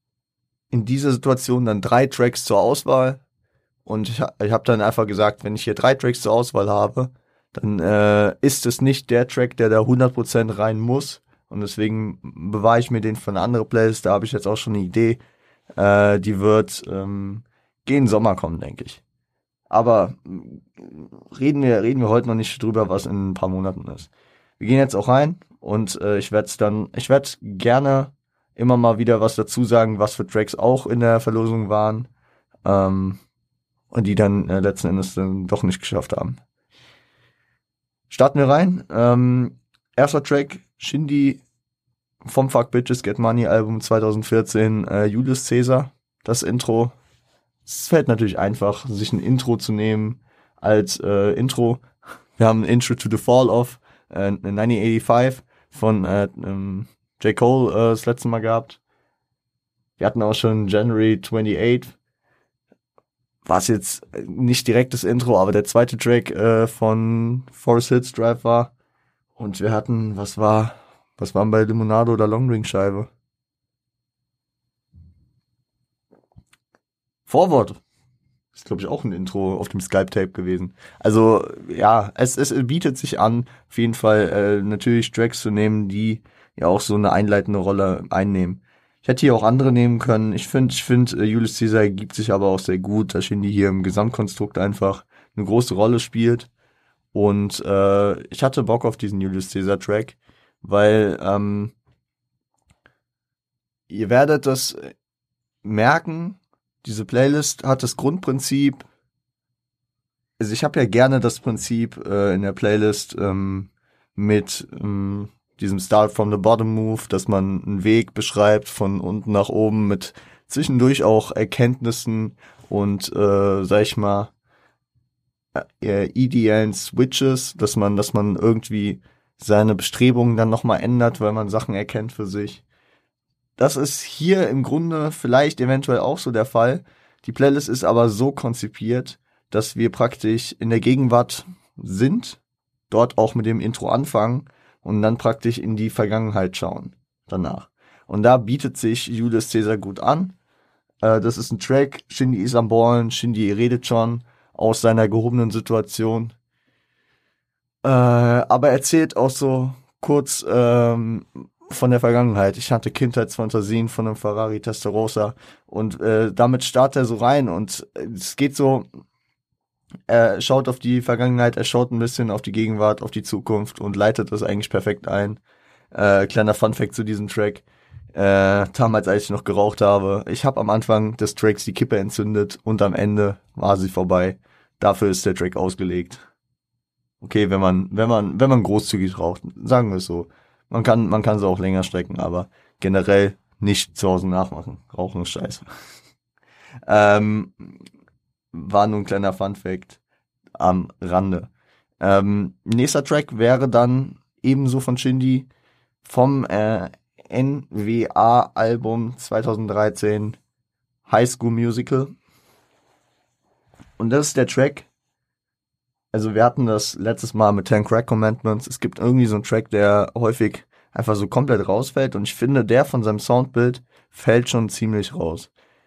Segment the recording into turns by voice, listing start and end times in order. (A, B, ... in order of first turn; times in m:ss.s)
0:00.7-0:03.2 A
0:03.8-0:15.2 A
0:15.8-0:19.0 A
0:19.7-0:32.1 A
0:32.6-0:33.2 A
0:33.9-0:36.4 A
0:38.1-0:41.4 A
0:42.2-0:46.9 A
0:47.6-0:51.8 A
0:52.4-0:58.8 A
1:00.0-1:01.9 A
1:03.4-1:08.7 A
1:09.4-1:13.1 A
1:17.3-1:17.8 A
1:18.5-1:36.5 A
1:37.1-1:41.7 A
1:43.9-1:44.9 A
1:45.6-1:48.8 A
1:50.4-2:04.3 A
2:05.5-2:12.6 A
2:13.6-2:22.4 A
2:22.9-2:30.4 A
2:31.0-2:36.3 A
2:37.8-2:48.9 A
2:50.1-2:55.4 A
2:55.9-3:06.2 A
3:07.2-3:15.6 A
3:16.9-3:17.8 A
3:18.5-3:20.0 A
3:20.6-3:25.5 A
3:26.0-3:30.4 A
3:31.0-3:32.1 A
3:34.0-3:34.9 A
3:36.1-3:45.5 A